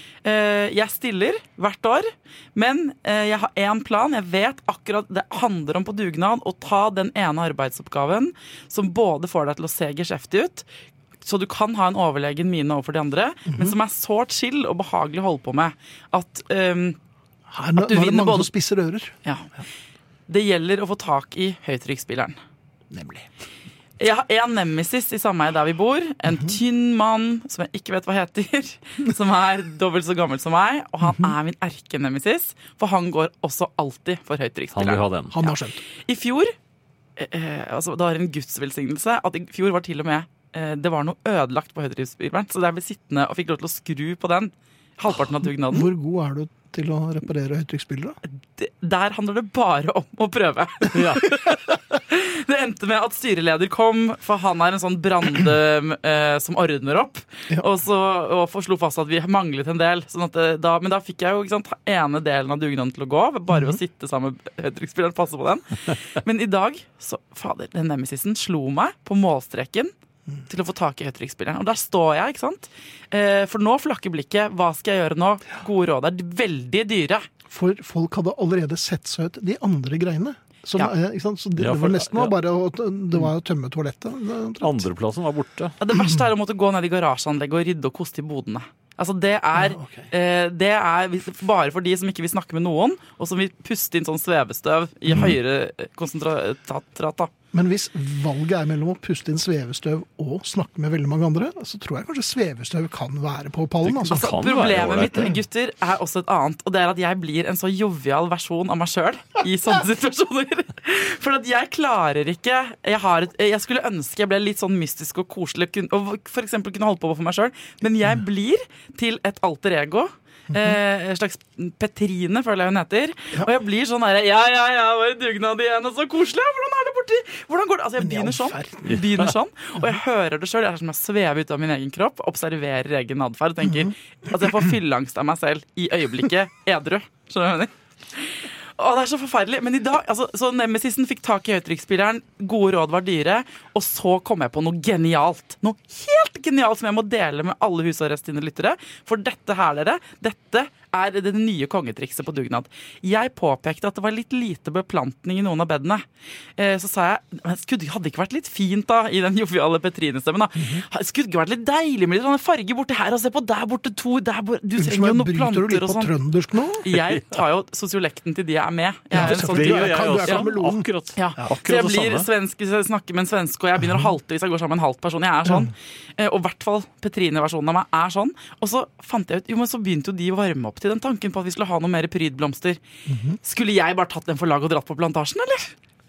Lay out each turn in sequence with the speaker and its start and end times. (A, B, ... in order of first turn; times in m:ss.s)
0:00.2-0:10.6 A
0:11.2-0:17.0 A
0:13.5-0:13.8 B
0:17.5-0:19.1 B
0:17.8-0:18.5 A
0:20.3-0:22.4 A
0:22.9-0:23.3 B
0:24.0-0:35.6 A
0:26.3-0:26.6 B
0:31.0-0:31.3 B
0:34.7-0:35.4 C
0:35.3-0:35.8 B
0:36.1-0:36.6 A
0:37.2-0:45.9 A
0:45.7-0:48.2 B
0:48.6-1:09.9 A
0:50.9-0:51.3 C
1:03.5-1:03.8 B
1:10.5-1:17.3 A
1:17.5-1:24.9 B
1:21.6-1:22.4 C
1:24.6-1:25.8 C
1:25.8-1:37.3 A
1:29.6-1:30.1 B
1:35.1-1:35.4 C
1:37.5-1:44.3 B
1:43.8-1:45.4 C
1:44.1-2:36.0 A
2:00.5-2:00.8 B
2:08.0-2:09.0 B
2:08.8-2:09.3 C
2:13.6-2:13.9 B
2:36.6-2:46.1 A
2:40.6-2:40.8 B
2:44.8-2:46.8 B
2:46.8-2:50.4 A
2:46.9-2:47.2 C
2:49.1-2:50.9 B
2:49.2-2:52.3 C
2:51.2-3:02.8 A
2:53.8-2:54.1 B
2:55.4-2:55.7 B
3:03.1-3:03.4 B
3:03.4-3:05.7 A